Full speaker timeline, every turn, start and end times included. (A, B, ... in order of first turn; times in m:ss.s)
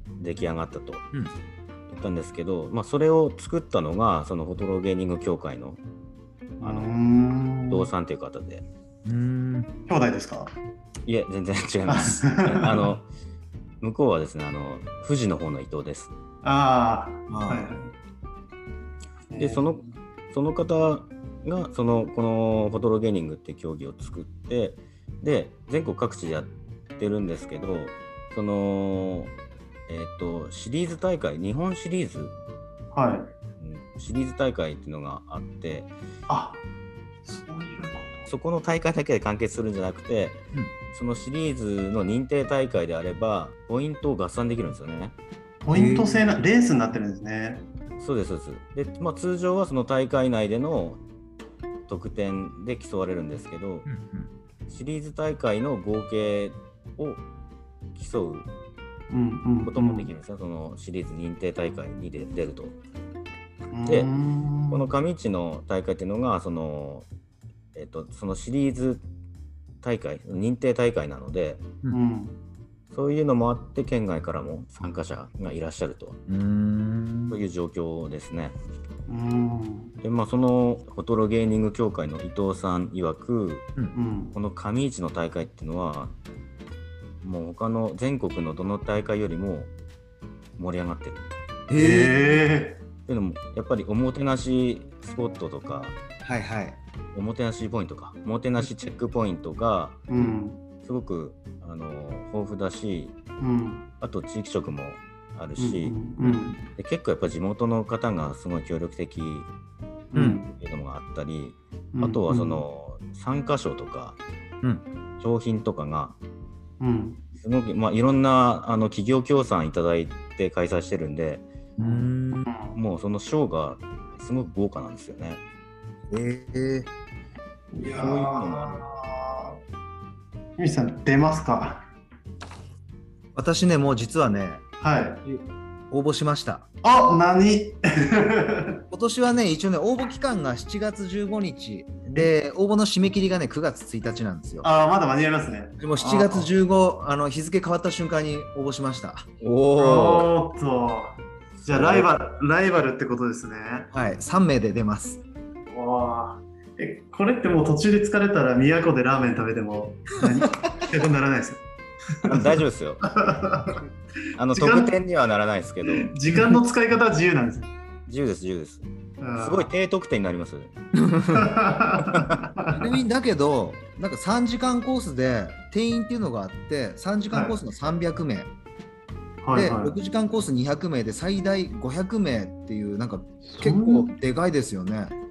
0:00.2-0:01.0 A
0:01.9-0:05.8 A
0:06.6-0:07.9 B
0:06.6-0:07.0 A
0:07.7-0:08.7 A
0:09.0-0:09.7 C
0:09.9-0:10.5 B
0:11.1-0:13.1 A
0:11.9-0:12.9 B
0:13.8-0:16.1 A
0:16.4-0:17.9 B
0:17.3-0:17.7 C
0:19.3-0:19.8 B
0:19.4-0:29.3 A
0:29.9-0:32.3 A
0:32.9-0:33.3 B
0:33.6-0:35.9 A
0:36.3-0:36.6 B
0:37.2-0:38.3 B
0:38.3-0:40.4 A
0:40.9-0:45.2 A
0:45.6-0:47.6 B
0:45.7-0:46.3 C
0:48.0-0:51.0 A
0:51.9-0:53.9 A
0:53.9-0:54.3 C
0:54.7-0:57.2 A
0:58.0-0:58.5 A
0:59.1-1:00.1 B
0:59.6-1:02.8 A
1:03.7-1:04.9 B
1:04.7-1:07.1 A
1:07.7-1:09.0 A
1:09.8-1:11.7 A
1:11.9-1:12.4 B
1:12.9-1:16.2 A
1:16.3-1:17.4 C
1:17.3-1:18.6 A
1:19.1-1:20.0 B
1:20.0-1:23.7 A
1:23.9-1:24.4 B
1:24.3-1:26.2 A
1:27.2-1:29.7 A
1:30.6-1:31.2 A
1:31.7-1:32.4 C
1:31.8-1:32.8 B
1:33.1-1:36.0 A
1:36.2-1:36.8 C
1:37.1-1:40.0 A
1:40.1-1:40.6 B
1:40.8-1:43.2 A
1:43.4-1:43.9 B
1:44.0-1:49.5 A
1:45.6-1:46.6 B
1:50.1-1:50.5 B
1:50.2-1:50.4 C
1:50.5-1:54.2 A
1:51.9-1:52.6 B
1:55.2-1:56.2 A
1:56.8-1:57.2 B
1:57.4-2:01.5 A
2:01.8-2:02.5 C
2:01.8-2:02.8 B
2:02.8-2:05.4 A
2:06.1-2:06.9 C
2:07.7-2:09.6 B
2:07.8-2:08.8 A
2:10.6-2:11.8 B
2:13.4-2:14.6 C
2:14.8-2:15.2 B
2:15.2-2:16.7 C
2:16.8-2:18.8 B
2:18.9-2:24.7 C
2:24.6-2:26.5 B
2:25.8-2:30.2 C
2:29.4-2:30.1 A
2:29.8-2:33.9 B
2:31.6-2:32.0 A
2:33.9-2:35.2 C
2:35.7-2:41.6 B
2:42.2-2:43.0 A
2:43.0-2:43.8 B
2:44.4-2:46.1 A
2:44.5-2:45.0 B
2:45.9-2:47.7 B
2:46.3-2:46.6 C
2:48.1-2:48.8 A
2:49.2-2:49.7 B
2:49.4-2:50.8 A
2:51.0-2:51.5 C
2:51.3-2:53.0 B
2:52.7-2:58.5 C
2:57.3-2:57.6 B
2:59.4-3:00.0 B
2:59.5-3:05.1 C
3:03.4-3:04.1 B